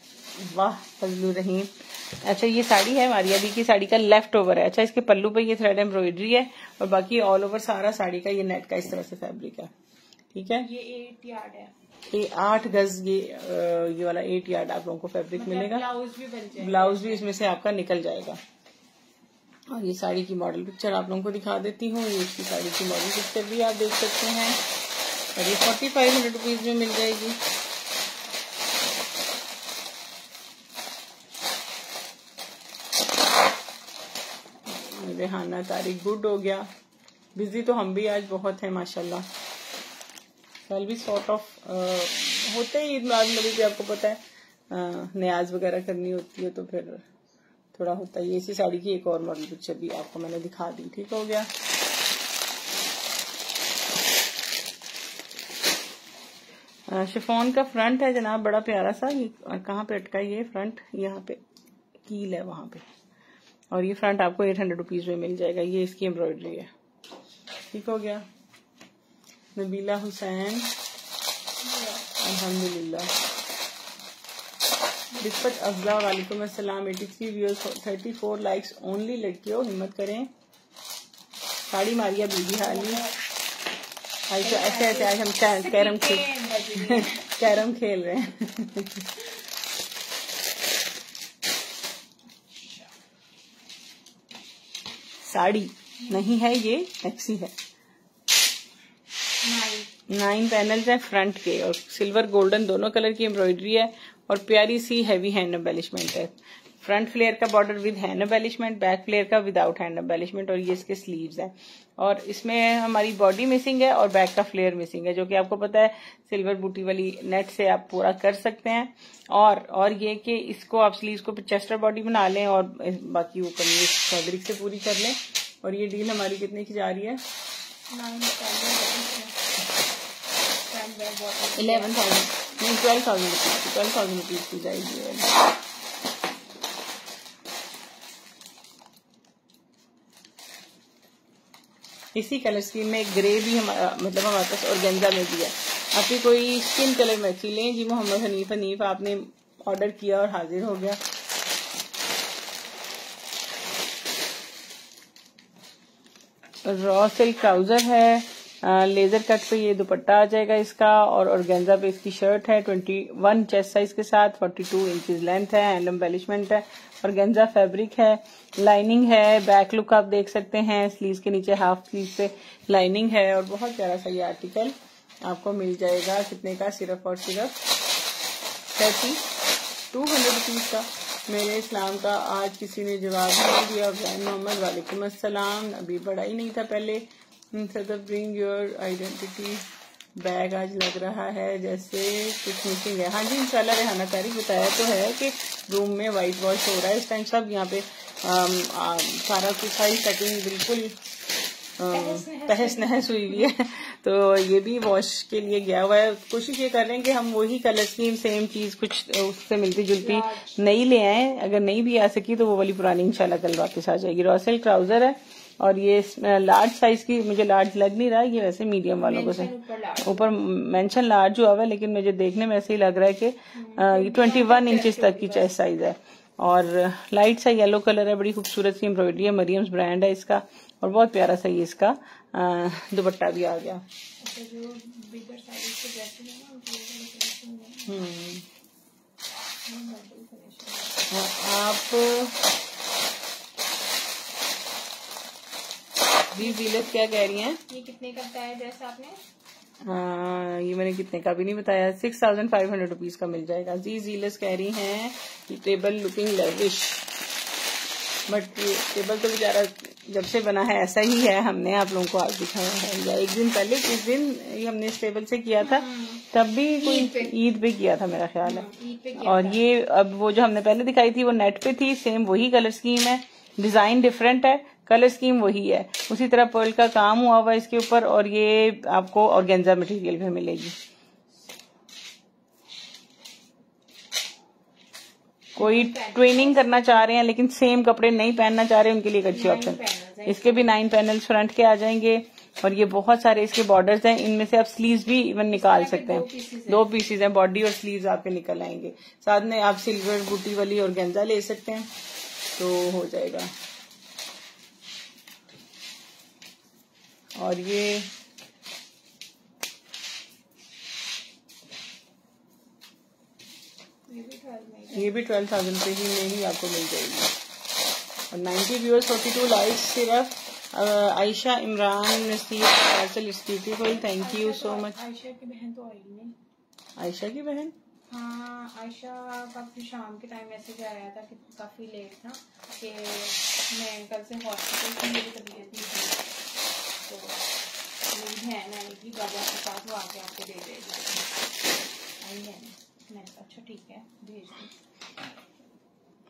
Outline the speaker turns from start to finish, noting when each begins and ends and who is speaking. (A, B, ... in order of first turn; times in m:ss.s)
0:00.4-0:09.7 A
0:10.3-0:10.7 A
0:10.6-0:11.7 B
0:12.1-0:15.8 A
0:15.3-0:17.3 B
0:16.6-0:18.4 A
0:19.7-0:24.6 A
0:25.4-0:27.4 A
0:34.7-0:36.7 A
0:37.3-0:39.3 A
0:40.7-0:47.0 A
0:47.7-0:51.5 A
0:56.9-1:01.4 A
1:02.0-1:02.8 A
1:03.7-1:06.7 A
1:07.7-1:08.3 A
1:09.5-1:10.7 A
1:11.6-1:12.2 B
1:12.2-1:13.1 A
1:15.2-1:20.3 A
1:21.7-1:23.0 A
1:22.6-1:23.2 B
1:24.3-1:29.1 A
1:24.4-1:27.6 B
1:32.4-1:32.9 B
1:35.2-1:37.5 A
1:39.4-1:39.9 B
1:40.1-2:07.2 A
2:07.9-2:09.4 B
2:10.7-2:12.0 B
2:11.6-2:15.3 A
2:22.1-2:31.0 A
2:36.6-2:57.6 A
2:58.7-2:59.2 A
2:59.9-3:09.6 A
3:10.2-3:21.0 A
3:21.8-3:39.5 A
3:21.9-3:23.5 B
3:30.0-3:30.6 B
3:39.0-3:40.4 B
3:40.0-3:53.8 A
3:43.5-3:45.5 B
3:54.2-3:58.0 B
3:57.9-3:58.4 A
3:59.6-4:01.1 B
4:01.1-4:02.4 A
4:06.3-4:07.6 A
4:07.7-4:09.2 B
4:09.8-4:17.0 A
4:18.3-4:40.7 A
4:25.6-4:27.4 B
4:28.4-4:29.6 B
4:45.6-5:01.9 A
4:45.6-4:47.2 B
4:49.3-4:50.7 B
4:55.5-4:56.9 B
5:02.6-5:03.5 A
5:07.4-5:08.1 A
5:14.1-5:15.1 B
5:14.9-5:17.3 A
5:18.3-5:24.9 A
5:23.8-5:26.4 B
5:27.0-5:27.7 A
5:28.1-5:36.3 B
5:37.0-5:37.5 B
5:38.1-5:41.4 B
5:42.2-5:44.7 B